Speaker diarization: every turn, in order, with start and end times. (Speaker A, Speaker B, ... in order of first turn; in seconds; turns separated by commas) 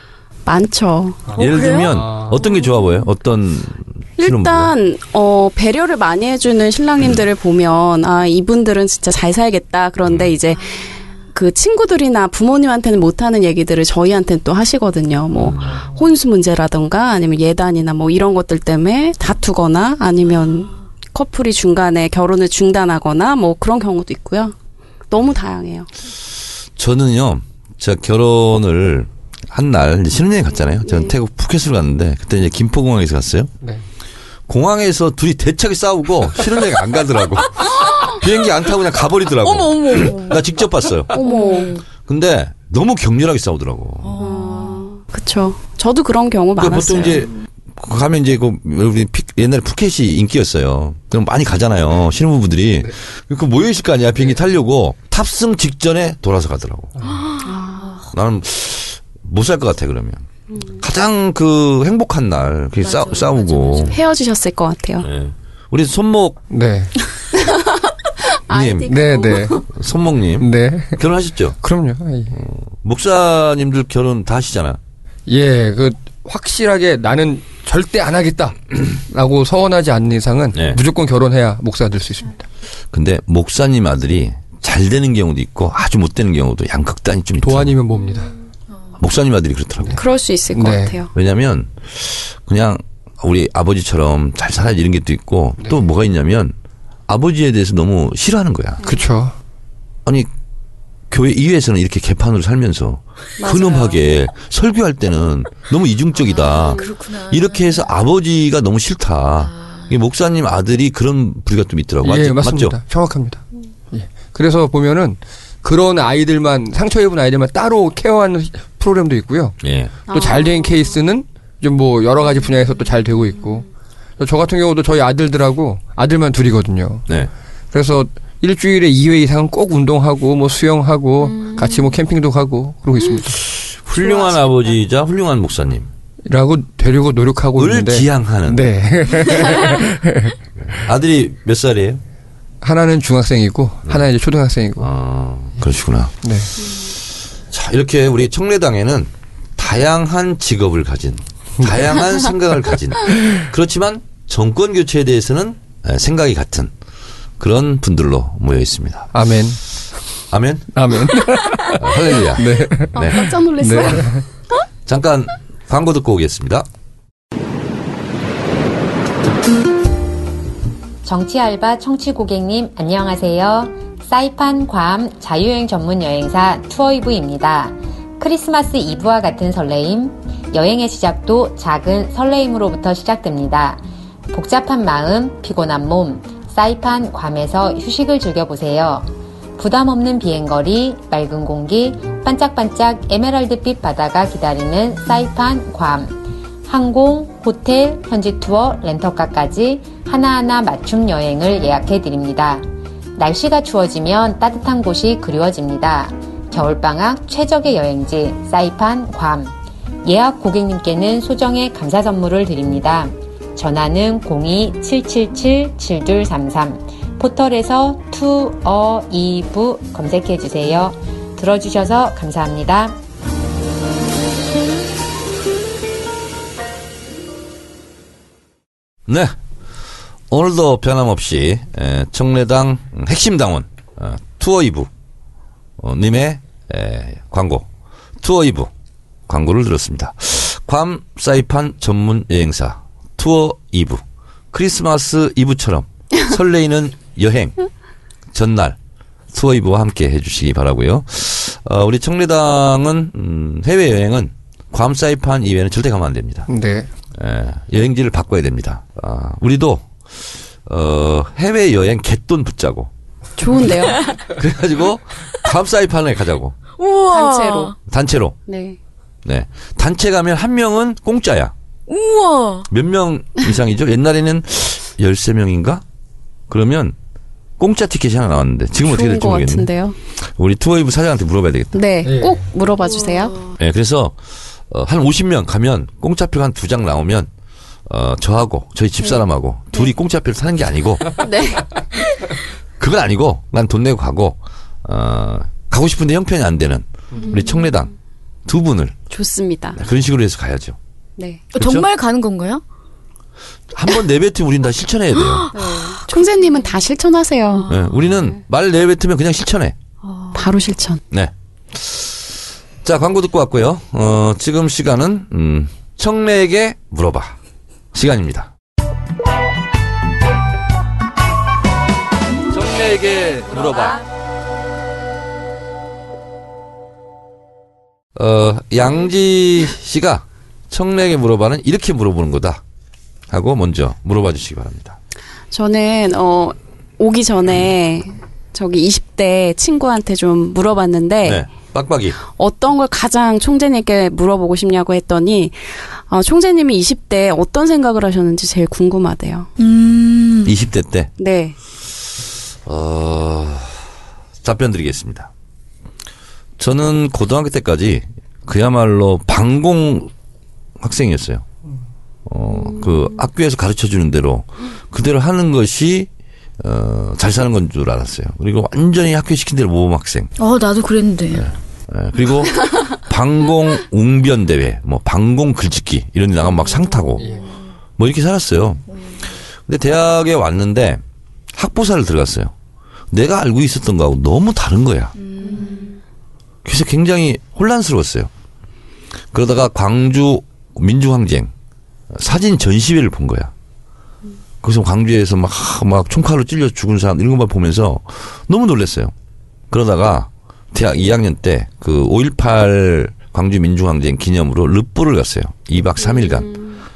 Speaker A: 0.5-1.2, Speaker B: 1.3-2.3, Speaker C: 1.3-2.7, Speaker D: 1.4-4.7, Speaker A: 4.2-24.6, Speaker D: 10.0-10.3, Speaker D: 15.3-15.8, Speaker A: 25.1-25.9, Speaker D: 26.8-33.5, Speaker A: 30.8-31.1, Speaker D: 34.5-41.2, Speaker C: 37.9-38.2, Speaker C: 39.4-40.4, Speaker A: 41.1-41.8, Speaker C: 41.2-41.8, Speaker D: 42.1-44.2, Speaker C: 44.0-44.9, Speaker A: 44.2-47.3, Speaker D: 46.6-56.9, Speaker C: 57.1-58.0, Speaker A: 57.4-58.0, Speaker D: 58.1-60.2, Speaker D: 60.8-64.0, Speaker C: 62.8-64.0, Speaker A: 63.9-65.1, Speaker D: 65.0-66.4, Speaker B: 66.5-66.9, Speaker A: 67.4-67.6, Speaker A: 68.2-69.6, Speaker D: 68.5-68.9, Speaker B: 68.9-69.6, Speaker D: 69.6-71.6, Speaker B: 70.4-71.0, Speaker B: 71.6-72.4, Speaker D: 72.3-74.8, Speaker B: 75.3-82.5, Speaker D: 80.5-80.8, Speaker D: 82.9-87.7, Speaker B: 87.4-88.3, Speaker D: 89.0-90.0, Speaker A: 90.0-91.1, Speaker B: 90.5-91.0, Speaker D: 91.1-96.5, Speaker B: 95.6-95.8, Speaker D: 97.1-98.8, Speaker B: 98.8-99.3, Speaker D: 101.1-112.8, Speaker A: 103.4-104.0, Speaker C: 106.3-107.9, Speaker C: 109.5-109.9, Speaker B: 112.0-123.7, Speaker D: 119.6-119.9, Speaker A: 120.1-120.8, Speaker B: 124.2-127.1, Speaker B: 127.7-133.4, Speaker A: 131.3-131.9, Speaker D: 133.4-135.9, Speaker B: 136.3-140.4, Speaker D: 137.6-138.7, Speaker D: 140.6-142.0, Speaker B: 142.6-144.9, Speaker D: 144.8-146.1, Speaker B: 146.2-146.5, Speaker D: 147.5-156.7, Speaker D: 157.4-159.1, Speaker B: 159.1-159.6, Speaker D: 160.3-161.2, Speaker B: 160.7-164.2, Speaker D: 161.7-163.3, Speaker A: 162.9-164.2, Speaker D: 164.9-166.7, Speaker E: 171.1-202.6, Speaker E: 203.2-209.5, Speaker E: 210.0-223.0, Speaker D: 229.1-229.3, Speaker D: 230.3-234.9, Speaker D: 235.8-237.7, Speaker D: 238.2-238.7, Speaker D: 239.3-247.6, Speaker D: 248.3-248.8, Speaker D: 249.3-256.5, Speaker B: 256.5-256.9, Speaker D: 257.2-262.9, Speaker A: 263.4-264.1, Speaker D: 264.2-266.6, Speaker C: 266.8-267.8, Speaker A: 267.1-267.7, Speaker D: 267.9-268.4, Speaker A: 268.5-268.8, Speaker D: 269.2-271.5, Speaker C: 271.9-272.7, Speaker D: 272.7-275.8, Speaker D: 276.5-277.0, Speaker D: 277.6-281.8, Speaker A: 278.8-280.0, Speaker A: 281.7-283.4, Speaker B: 282.1-282.5, Speaker C: 282.8-283.5, Speaker D: 283.6-284.2, Speaker D: 284.7-287.3, Speaker D: 287.9-291.2, Speaker A: 291.1-291.8, Speaker D: 292.8-297.9, Speaker A: 297.2-297.9, Speaker D: 298.5-298.9, Speaker A: 299.1-299.8, Speaker D: 299.8-300.8, Speaker A: 301.2-301.4, Speaker C: 301.5-302.6, Speaker D: 301.6-301.9, Speaker D: 303.7-305.5, Speaker C: 305.2-306.6, Speaker A: 305.5-308.4, Speaker D: 307.7-309.8, Speaker C: 310.0-310.5, Speaker A: 310.3-311.0, Speaker D: 311.1-317.4, Speaker D: 317.9-318.5, Speaker D: 322.5-324.0, Speaker D: 328.2-332.6, Speaker D: 333.3-335.0, Speaker A: 335.5-341.4, Speaker D: 341.2-342.2, Speaker A: 342.2-349.5, Speaker C: 349.6-350.6, Speaker D: 350.4-351.1, Speaker A: 351.2-351.6, Speaker D: 352.7-353.8, Speaker D: 354.4-355.3, Speaker D: 356.6-360.1, Speaker D: 360.8-361.4, Speaker D: 362.3-366.1, Speaker D: 366.6-370.3, Speaker C: 370.4-371.5, Speaker D: 371.3-377.4, Speaker C: 377.2-377.5, Speaker B: 377.2-377.5, Speaker D: 378.0-378.8, Speaker C: 378.9-379.2, Speaker D: 379.7-381.0, Speaker D: 381.5-382.5, Speaker D: 383.1-385.1, Speaker C: 385.2-385.9, Speaker A: 385.4-386.0, Speaker D: 386.6-388.3, Speaker D: 389.3-391.5, Speaker D: 392.1-393.5, Speaker D: 394.6-399.1, Speaker D: 399.7-406.5, Speaker A: 406.0-406.7